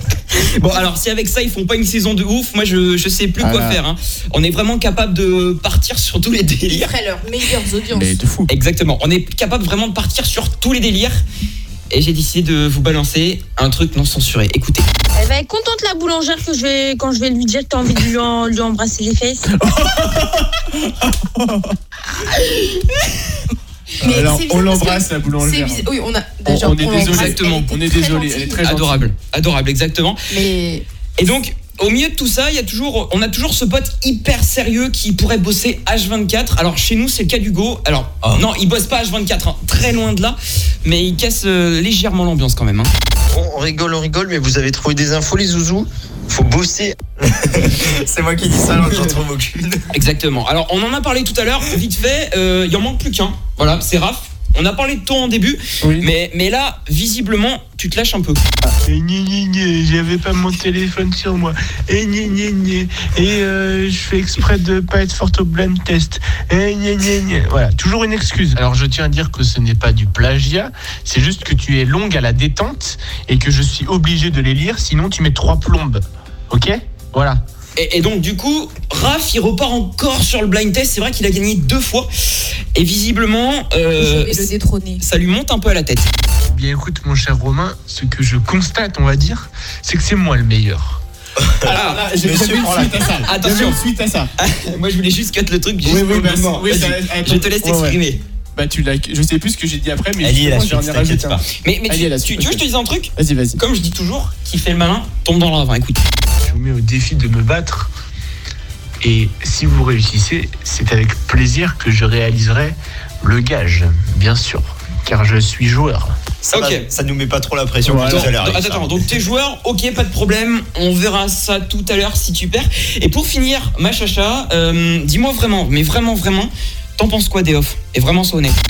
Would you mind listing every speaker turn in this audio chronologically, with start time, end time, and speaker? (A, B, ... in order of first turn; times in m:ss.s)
0:00.3-0:06.9 A
0:03.4-0:03.8 B
0:06.7-0:08.2 C
0:07.9-0:08.5 B
0:08.5-0:11.2 A
0:11.9-0:14.9 A
0:15.1-0:19.5 D
0:19.5-0:21.7 B
0:24.0-0:25.9 B
0:24.0-0:28.6 C
0:26.4-0:29.1 B
0:27.0-0:27.7 A
0:28.6-0:30.2 A
0:30.3-0:30.8 C
0:31.2-0:42.9 A
0:38.2-0:38.5 E
0:43.3-0:49.9 E
0:49.9-0:58.4 A
0:55.8-0:56.1 B
0:58.8-1:17.4 F
1:17.8-1:26.1 A
1:24.0-1:25.0 C
1:26.5-1:31.0 F
1:31.4-1:33.1 E
1:31.6-1:34.3 B
1:31.7-1:32.1 A
1:33.2-1:33.8 A
1:34.4-1:38.2 A
1:35.8-1:38.0 B
1:38.5-1:42.6 B
1:40.2-1:41.4 E
1:41.6-1:46.0 A
1:43.2-1:43.6 B
1:46.4-1:47.9 F
1:49.0-1:56.2 F
1:56.4-1:56.8 A
1:56.5-1:59.1 E
1:57.8-1:58.3 B
1:58.0-2:08.6 A